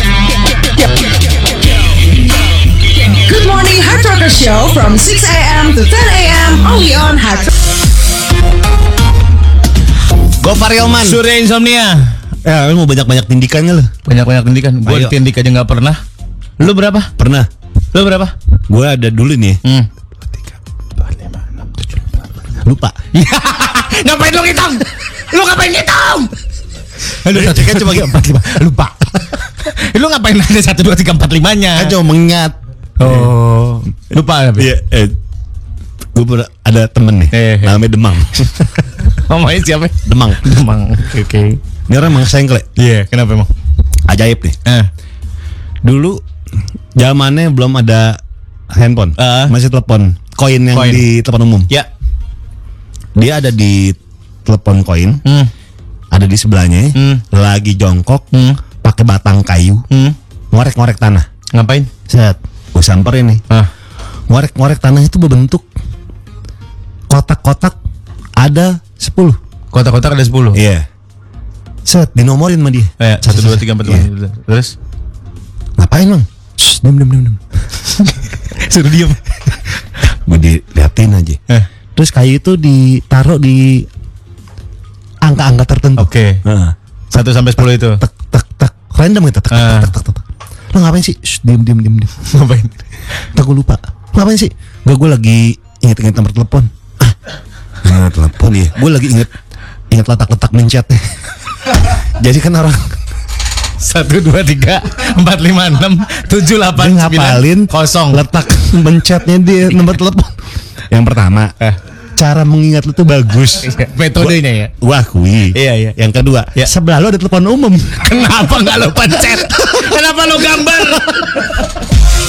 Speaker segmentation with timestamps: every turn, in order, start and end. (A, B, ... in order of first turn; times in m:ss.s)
0:03.0-0:07.5 A
0:10.4-0:11.2 B
0:11.0-0:12.2 C
0:12.4-0:13.9 B
0:14.0-0:16.0 C
0:14.8-0:15.2 B
0:16.6-0:17.1 C
0:17.2-0:17.5 B
0:17.9-0:18.3 C
0:18.7-0:19.6 B
0:22.6-0:23.0 B
0:23.1-0:26.3 C
0:27.1-0:32.0 C
0:27.3-0:28.6 B
0:31.7-0:33.3 B
0:33.0-0:34.7 C
0:34.6-0:35.2 B
0:36.1-0:38.8 B
0:37.3-0:37.8 C
0:39.0-0:41.6 C
0:40.0-0:40.4 B
0:41.9-0:42.6 B
0:42.8-0:43.5 C
0:44.1-0:44.6 B
0:45.8-0:46.2 B
0:47.0-0:48.2 B
0:48.7-0:51.7 B
0:49.2-0:49.5 C
0:50.7-0:51.0 C
0:53.2-0:55.2 B
0:55.2-0:55.5 C
0:56.1-0:58.2 B
0:56.9-0:57.2 C
0:58.3-0:58.6 C
0:58.8-0:59.8 B
0:59.9-1:00.2 C
1:00.5-1:01.2 B
1:01.5-1:01.9 C
1:02.1-1:03.4 B
1:04.3-1:05.6 B
1:07.1-1:07.8 B
1:08.4-1:09.4 B
1:09.7-1:10.6 C
1:10.5-1:10.8 B
1:11.8-1:14.1 B
1:13.0-1:14.7 C
1:15.8-1:17.4 B
1:18.0-1:19.5 C
1:20.2-1:21.4 B
1:22.0-1:23.9 B
1:25.2-1:32.3 B
1:26.0-1:26.4 C
1:27.1-1:28.0 C
1:29.5-1:29.9 C
1:32.3-1:32.8 C
1:33.3-1:37.1 B
1:37.8-1:39.3 B
1:39.9-1:41.0 B
1:41.7-1:43.0 B
1:43.8-1:48.2 C
1:46.8-1:50.4 B
1:50.9-1:51.5 B
1:52.2-1:59.7 B
1:53.6-1:54.7 C
1:55.5-1:56.0 C
1:58.1-2:01.5 C